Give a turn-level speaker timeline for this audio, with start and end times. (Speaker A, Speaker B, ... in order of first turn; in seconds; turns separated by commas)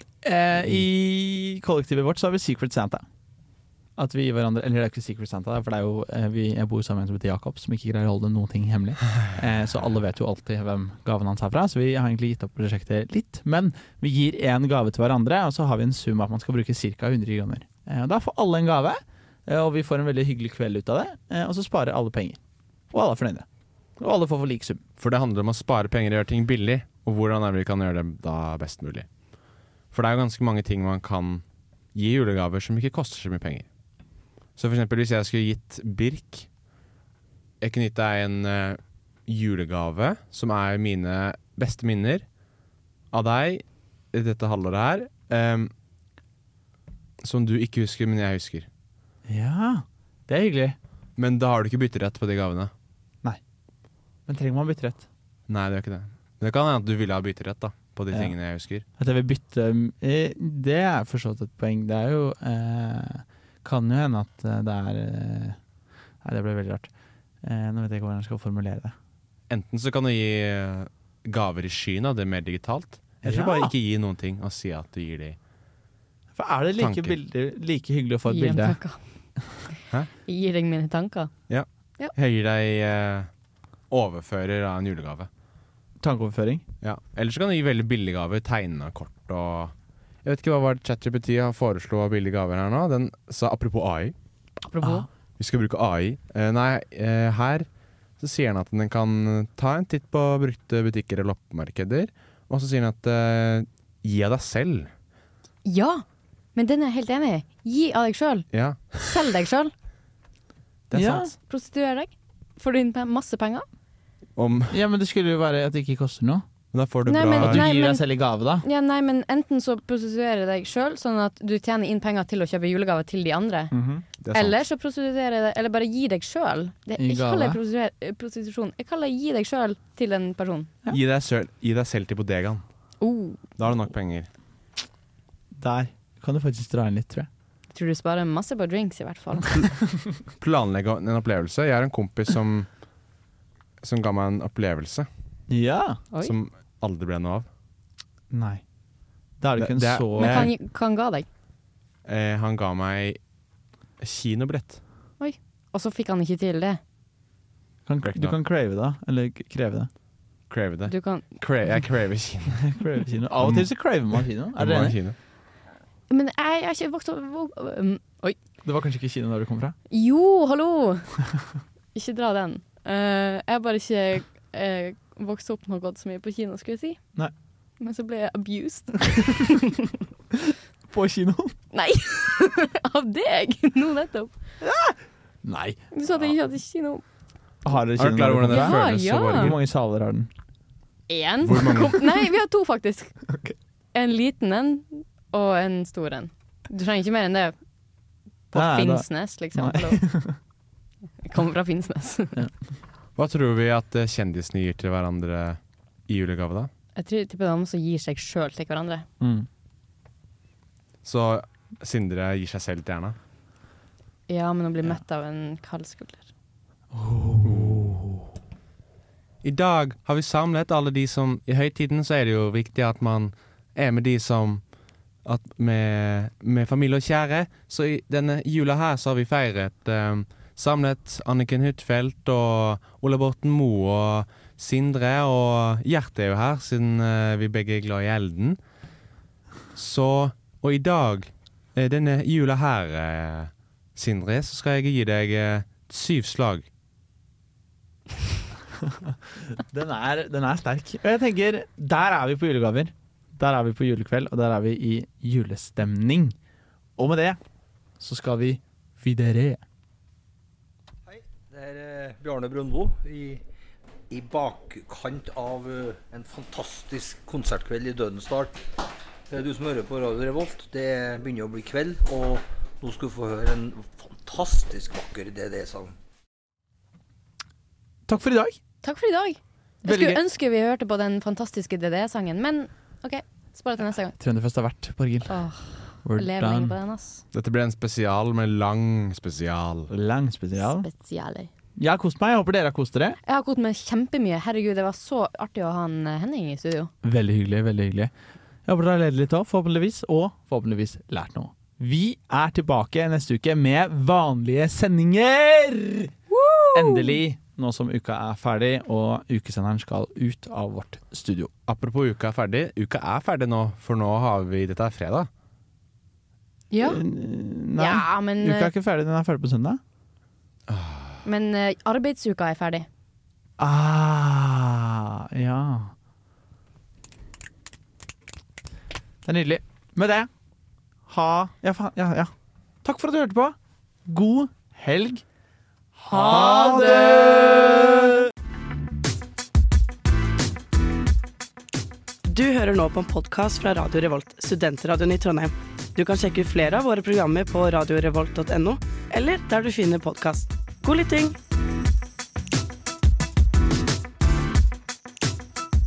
Speaker A: 0.2-3.0, Speaker B: 0.6-0.8, Speaker A: 4.0-22.4, Speaker A: 22.9-23.4, Speaker A: 24.0-24.8, Speaker B: 25.0-29.1, Speaker B: 29.9-33.7, Speaker B: 34.5-36.5, Speaker B: 37.6-42.2, Speaker B: 43.1-45.7, Speaker B: 47.2-48.7, Speaker A: 49.3-50.8, Speaker B: 51.2-52.7, Speaker A: 54.3-55.0, Speaker B: 55.5-58.8, Speaker A: 59.0-65.6, Speaker A: 66.2-66.9, Speaker A: 67.4-68.9, Speaker B: 69.5-75.4, Speaker A: 73.2-73.7, Speaker A: 76.3-78.8, Speaker B: 76.8-77.1, Speaker C: 78.3-79.0, Speaker C: 80.2-81.3, Speaker B: 81.5-83.3, Speaker B: 83.9-85.3, Speaker A: 86.0-86.6, Speaker B: 86.8-94.1, Speaker C: 94.6-95.0, Speaker B: 95.4-97.7, Speaker B: 98.2-104.9, Speaker C: 105.6-106.0, Speaker C: 106.5-108.5, Speaker B: 108.5-109.2, Speaker C: 109.0-109.7, Speaker B: 110.9-111.3, Speaker A: 110.9-111.3, Speaker C: 111.4-113.7, Speaker B: 114.3-114.8, Speaker A: 114.7-116.4, Speaker B: 116.7-117.7, Speaker C: 117.1-118.0, Speaker A: 117.4-118.6, Speaker C: 118.6-123.7, Speaker A: 123.7-124.0, Speaker B: 124.2-124.6, Speaker C: 124.3-130.7, Speaker A: 127.0-127.6, Speaker B: 130.9-132.6, Speaker C: 133.0-133.4, Speaker B: 133.6-134.3, Speaker A: 135.5-137.3, Speaker C: 137.7-139.8, Speaker B: 140.4-142.7, Speaker B: 143.8-145.1, Speaker A: 145.5-146.0, Speaker B: 146.2-147.5, Speaker A: 148.3-148.6, Speaker A: 149.4-150.5, Speaker B: 149.6-150.5, Speaker C: 150.2-151.2, Speaker B: 152.0-153.2, Speaker B: 154.0-154.8, Speaker C: 155.2-156.8, Speaker A: 157.9-159.9, Speaker B: 158.0-158.3, Speaker B: 160.5-162.6, Speaker C: 160.9-161.2, Speaker A: 162.6-165.0, Speaker B: 163.4-163.7, Speaker B: 164.5-165.2, Speaker C: 166.1-168.4, Speaker A: 168.6-169.8, Speaker C: 169.9-171.1, Speaker C: 171.9-177.0, Speaker C: 177.8-179.9, Speaker A: 180.9-181.5, Speaker C: 181.7-184.4, Speaker A: 184.6-185.8, Speaker C: 185.9-187.0, Speaker A: 187.6-188.8, Speaker B: 187.9-189.6, Speaker C: 188.5-189.5, Speaker A: 189.3-190.3, Speaker C: 191.1-193.2, Speaker B: 191.4-192.0, Speaker C: 193.9-197.5, Speaker C: 198.5-200.0, Speaker A: 198.5-200.4, Speaker C: 201.2-202.4, Speaker B: 203.2-206.7, Speaker C: 206.9-209.1, Speaker A: 209.2-209.5, Speaker B: 211.0-213.2, Speaker C: 214.3-216.3, Speaker A: 216.9-218.2, Speaker B: 217.4-217.9, Speaker B: 219.4-224.6, Speaker B: 225.2-238.6, Speaker B: 239.7-246.7, Speaker A: 248.8-256.3, Speaker A: 257.0-257.4, Speaker A: 258.0-259.6, Speaker D: 261.1-263.4, Speaker D: 264.1-268.6, Speaker D: 269.3-275.9, Speaker A: 278.1-278.6, Speaker C: 278.8-284.1, Speaker A: 279.9-280.2, Speaker A: 284.2-285.3, Speaker C: 285.3-287.2, Speaker A: 286.0-286.7, Speaker B: 287.3-289.9, Speaker A: 289.9-290.9, Speaker C: 290.6-291.5, Speaker A: 291.8-293.2, Speaker C: 293.2-296.9, Speaker A: 297.0-298.1, Speaker A: 298.6-306.1, Speaker C: 306.3-307.2, Speaker A: 306.7-311.5, Speaker B: 311.7-315.3, Speaker C: 316.7-317.0, Speaker A: 316.8-319.8, Speaker C: 317.8-318.7, Speaker B: 320.7-321.2, Speaker C: 321.2-322.9, Speaker A: 323.6-325.9, Speaker A: 329.2-330.3, Speaker A: 331.1-332.3, Speaker A: 332.8-335.2, Speaker A: 336.0-338.1, Speaker C: 336.1-338.1, Speaker E: 342.2-351.4